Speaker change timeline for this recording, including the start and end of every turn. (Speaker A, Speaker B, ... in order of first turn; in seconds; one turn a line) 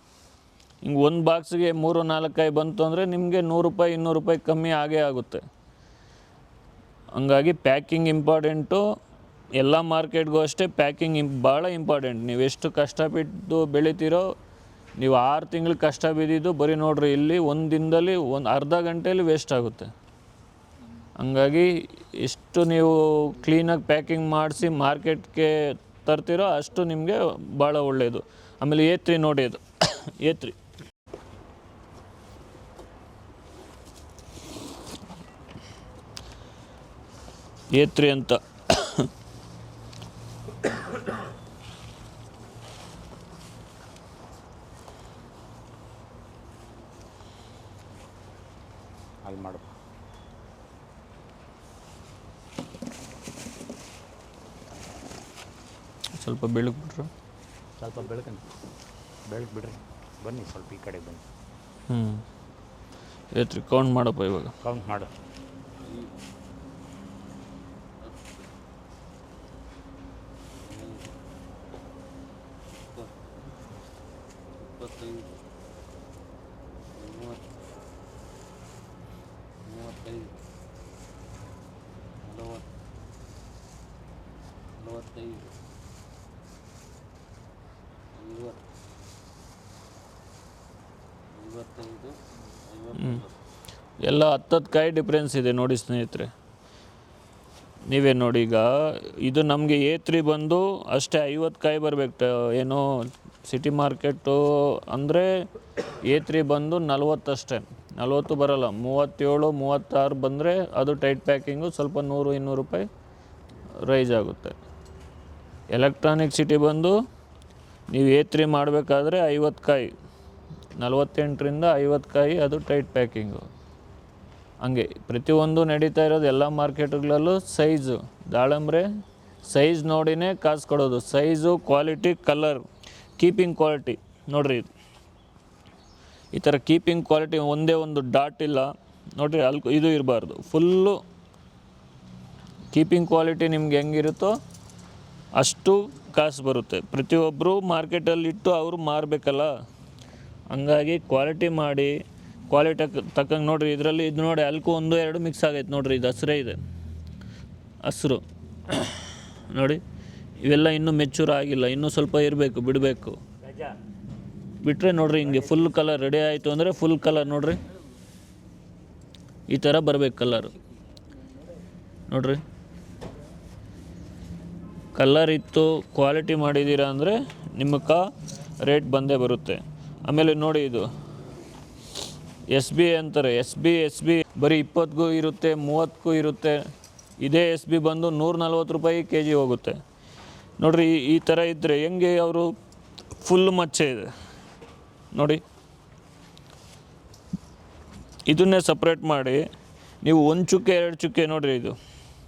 Speaker A: 0.8-5.4
Speaker A: 7.1-8.8
Speaker A: 9.6-14.3
Speaker A: 15.0-19.9
Speaker A: 21.2-30.6
Speaker A: 37.7-39.1
Speaker B: 49.2-49.7
Speaker A: 56.1-57.1
Speaker B: 57.9-58.4
Speaker B: 59.3-61.2
Speaker A: 61.9-62.2
Speaker A: 63.3-64.5
Speaker B: 64.6-65.1
Speaker C: 65.8-66.2
Speaker C: 70.6-71.1
Speaker C: 74.6-75.3
Speaker C: 76.9-77.4
Speaker C: 79.6-80.4
Speaker C: 82.2-82.7
Speaker C: 84.8-85.5
Speaker C: 88.1-88.6
Speaker C: 91.3-93.3
Speaker A: 92.9-93.2
Speaker A: 94.0-96.3
Speaker A: 97.8-112.9
Speaker A: 113.8-114.6
Speaker A: 115.7-117.0
Speaker A: 117.9-119.9
Speaker A: 120.8-123.5
Speaker A: 124.6-128.9
Speaker A: 129.4-132.6
Speaker A: 133.2-134.7
Speaker A: 136.3-141.0
Speaker A: 142.7-144.3
Speaker A: 145.3-149.5
Speaker A: 150.5-152.0
Speaker A: 152.5-156.6
Speaker A: 157.8-159.8
Speaker A: 160.4-163.2
Speaker B: 163.5-163.7
Speaker A: 164.6-167.6
Speaker A: 169.5-170.5
Speaker A: 172.1-172.4
Speaker A: 174.9-178.1
Speaker A: 178.6-180.9
Speaker A: 182.5-186.6
Speaker A: 187.2-189.8
Speaker A: 190.6-192.5
Speaker A: 193.2-194.1
Speaker A: 195.1-195.4
Speaker A: 198.2-199.4
Speaker A: 200.0-201.8